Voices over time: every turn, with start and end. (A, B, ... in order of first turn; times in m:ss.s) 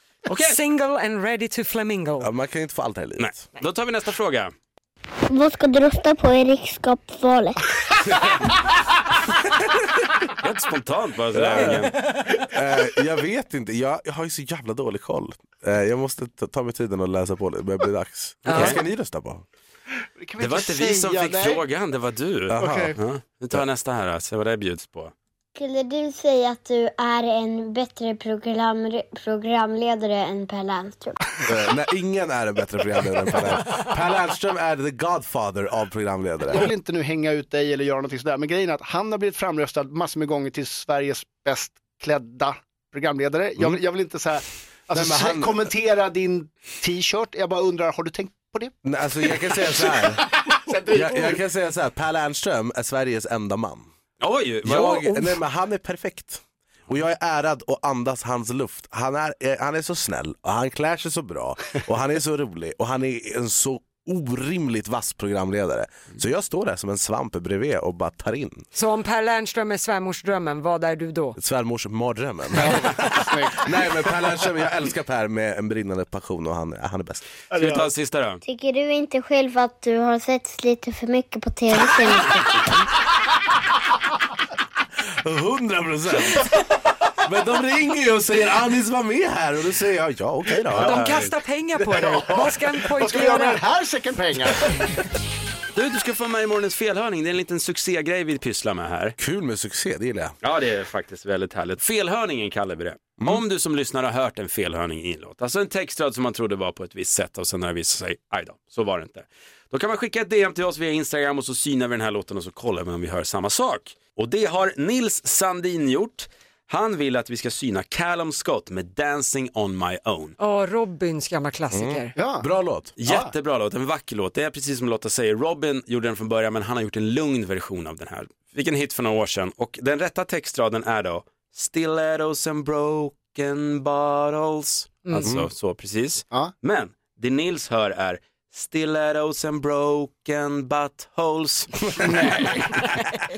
0:00.3-0:00.6 A
0:00.3-0:02.3 B
0:02.2-0:03.3 C
0:03.2-0:04.5 A
0:05.3-0:07.6 D
0:10.4-0:12.0 A
0:11.3-0:19.4 C
0:18.5-0:18.8 B
0:18.5-0:18.8 A
0:20.2-0:21.6 E
0:20.4-0:25.1 A
0:22.5-0:23.0 C
0:22.6-0:23.0 E
0:25.5-0:31.2 D
0:31.4-0:36.7 C
0:36.5-0:48.7 E
0:44.9-0:45.6 C
0:48.8-0:50.2 C
0:49.3-0:51.4 E
0:50.8-0:53.9 C
0:54.2-0:55.4 A
0:54.6-1:08.6 C
1:08.7-1:11.4 B
1:11.4-1:17.2 C
1:17.5-1:18.4 A
1:17.5-1:17.8 E
1:18.4-1:22.7 D
1:25.2-1:31.3 C
1:30.7-1:33.6 B
1:32.9-1:34.9 E
1:35.7-1:39.2 A
1:39.2-1:40.4 C
1:40.4-2:00.4 A
2:00.4-2:02.1 B
2:01.7-2:02.9 C
2:02.2-2:02.5 E
2:03.0-2:22.9 A
2:03.0-2:03.3 E
2:15.2-2:15.5 C
2:22.0-2:22.3 C